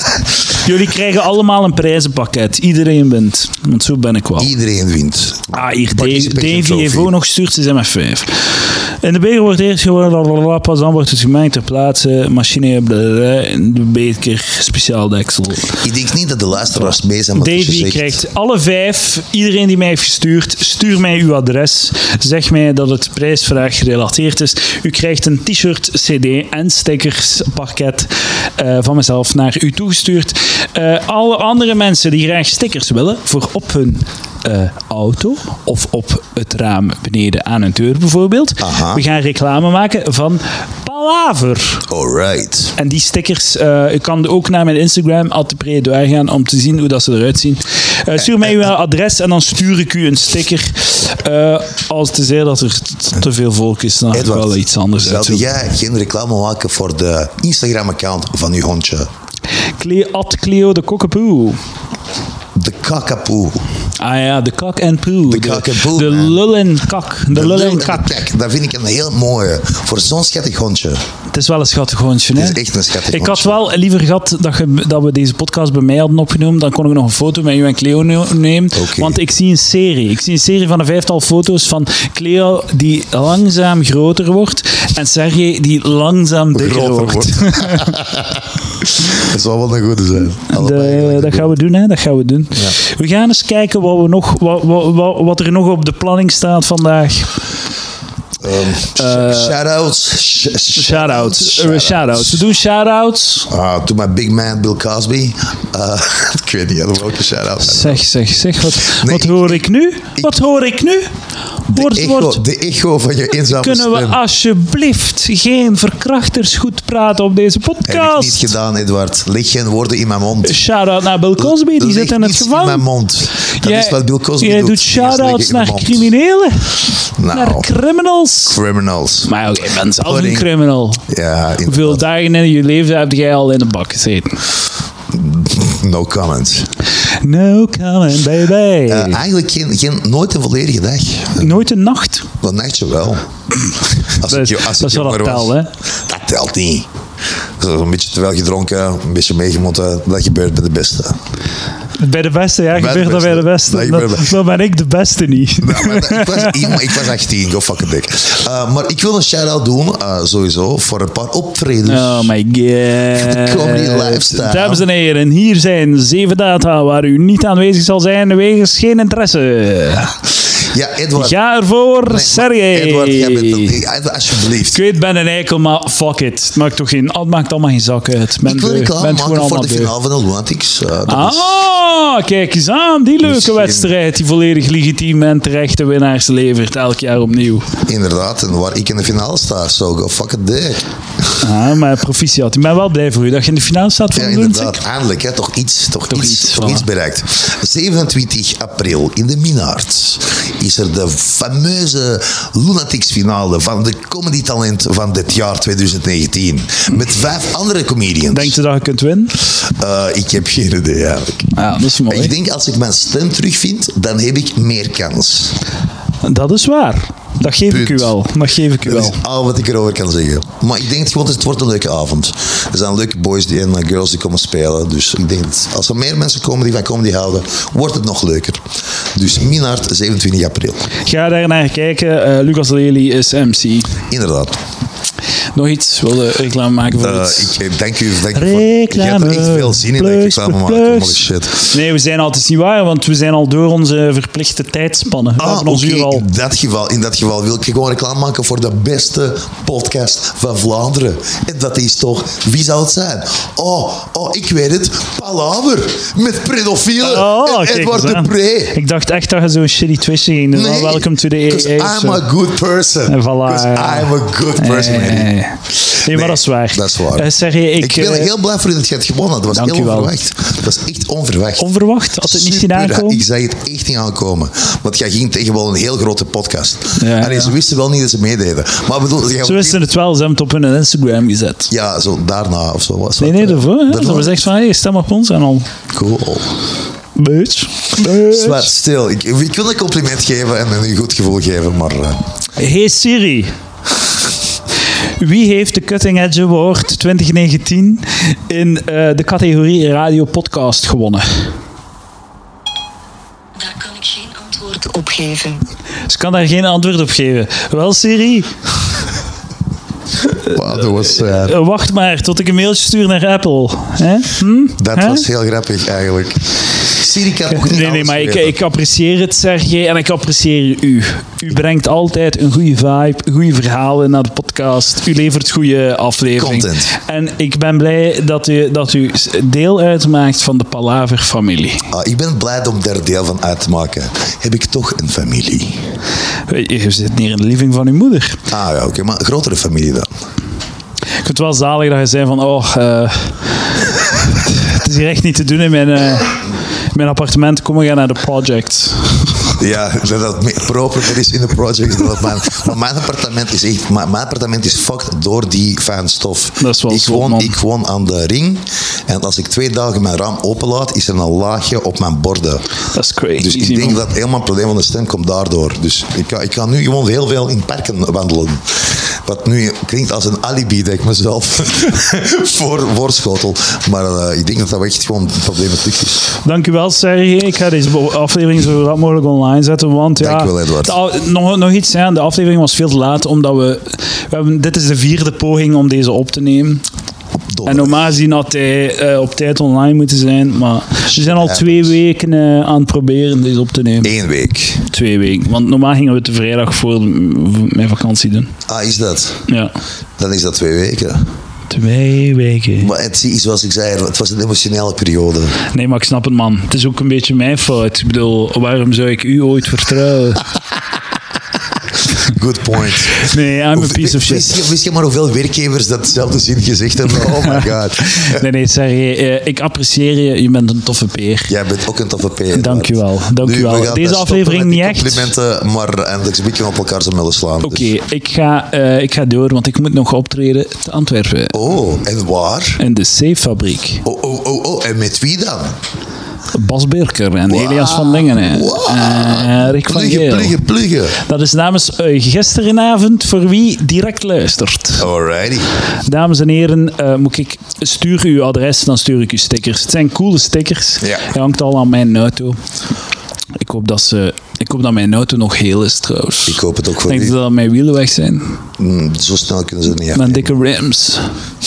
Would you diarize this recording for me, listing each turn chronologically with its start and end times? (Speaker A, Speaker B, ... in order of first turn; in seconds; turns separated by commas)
Speaker A: 0.5-4.5, Speaker B: 4.4-7.1, Speaker A: 5.5-15.8, Speaker B: 15.8-18.2, Speaker A: 17.4-41.8, Speaker B: 38.6-39.0, Speaker B: 41.9-42.7, Speaker A: 42.8-55.5, Speaker B: 54.1-59.1, Speaker A: 59.8-61.6, Speaker B: 62.5-63.6, Speaker A: 64.0-68.2, Speaker B: 65.3-66.4, Speaker B: 67.3-71.0, Speaker A: 71.3-88.0, Speaker B: 72.3-73.6, Speaker B: 78.7-79.2, Speaker B: 86.5-91.5, Speaker A: 90.5-97.3, Speaker B: 98.4-102.4, Speaker A: 98.9-99.5, Speaker A: 100.7-103.5, Speaker B: 103.5-108.0, Speaker A: 107.6-111.1, Speaker B: 108.8-109.6, Speaker A: 111.7-112.4, Speaker B: 111.7-114.2, Speaker A: 113.5-118.5, Speaker B: 117.8-120.6, Speaker A: 120.4-122.8, Speaker B: 121.4-126.1, Speaker A: 123.6-128.6, Speaker B: 127.2-127.7, Speaker B: 128.5-129.3, Speaker A: 129.2-131.1, Speaker B: 130.0-130.5, Speaker B: 131.1-132.0, Speaker A: 131.6-134.4, Speaker B: 135.1-136.7, Speaker A: 137.2-139.2, Speaker B: 138.9-141.5, Speaker A: 141.4-142.3, Speaker B: 142.4-143.2, Speaker B: 144.1-146.9, Speaker A: 144.2-145.7, Speaker B: 147.6-151.2, Speaker A: 152.0-156.7, Speaker B: 152.7-154.3, Speaker B: 155.6-162.3, Speaker A: 161.8-170.2, Speaker B: 163.1-164.8, Speaker B: 170.7-171.3, Speaker A: 171.2-173.8, Speaker B: 172.1-174.8, Speaker A: 174.7-179.9, Speaker B: 178.4-181.5, Speaker A: 181.1-187.7, Speaker B: 183.2-183.9, Speaker B: 187.8-191.4, Speaker A: 191.4-194.8, Speaker B: 194.1-208.5, Speaker A: 196.1-196.9, Speaker A: 208.3-209.3, Speaker B: 209.4-211.5, Speaker A: 211.5-212.3, Speaker B: 212.1-215.6, Speaker A: 216.2-219.2, Speaker B: 217.7-218.1, Speaker B: 218.8-230.8, Speaker A: 231.0-234.0, Speaker B: 234.1-234.6, Speaker A: 235.5-237.6, Speaker B: 237.0-241.7, Speaker A: 238.3-246.3, Speaker B: 245.4-258.8, Speaker A: 257.0-262.2, Speaker B: 260.5-271.7, Speaker A: 263.1-268.3, Speaker A: 269.5-270.1, Speaker A: 271.6-273.2, Speaker B: 272.2-279.8, Speaker A: 276.9-277.6, Speaker A: 279.4-281.7, Speaker B: 281.7-284.4, Speaker A: 283.2-285.7, Speaker B: 285.9-286.5, Speaker A: 287.1-288.7, Speaker B: 287.9-292.2, Speaker A: 292.6-293.5, Speaker A: 295.2-301.5, Speaker C: 303.6-305.6, Speaker A: 306.1-308.5, Speaker A: 310.3-315.2, Speaker B: 310.4-311.6, Speaker B: 314.8-318.6, Speaker A: 317.5-331.9, Speaker B: 326.4-326.9, Speaker B: 331.9-335.8, Speaker A: 336.5-338.4, Speaker B: 338.5-340.1, Speaker A: 341.2-349.6, Speaker B: 349.6-362.6, Speaker A: 356.6-357.6, Speaker A: 362.9-364.0, Speaker B: 363.4-376.2, Speaker A: 376.4-386.8, Speaker B: 380.2-380.9, Speaker B: 387.5-388.1, Speaker A: 387.6-394.1, Speaker B: 391.1-392.0, Speaker B: 394.0-394.9, Speaker A: 394.9-398.5, Speaker B: 398.7-399.4, Speaker A: 399.5-399.7, Speaker B: 400.2-401.3, Speaker A: 401.7-402.9, Speaker B: 402.8-405.6, Speaker A: 405.7-410.5, Speaker B: 412.2-418.4, Speaker A: 413.1-414.5, Speaker A: 417.2-421.5, Speaker B: 421.5-427.9, Speaker A: 422.5-425.3, Speaker A: 427.6-431.6, Speaker B: 431.5-432.8, Speaker A: 432.8-434.0, Speaker B: 434.0-435.8, Speaker A: 436.5-440.6, Speaker B: 437.5-441.2, Speaker A: 441.2-445.1, Speaker B: 445.0-445.7, Speaker A: 446.0-452.6, Speaker B: 451.0-451.2, Speaker A: 453.6-458.6, Speaker B: 456.4-457.4, Speaker B: 458.8-460.5, Speaker A: 460.1-461.3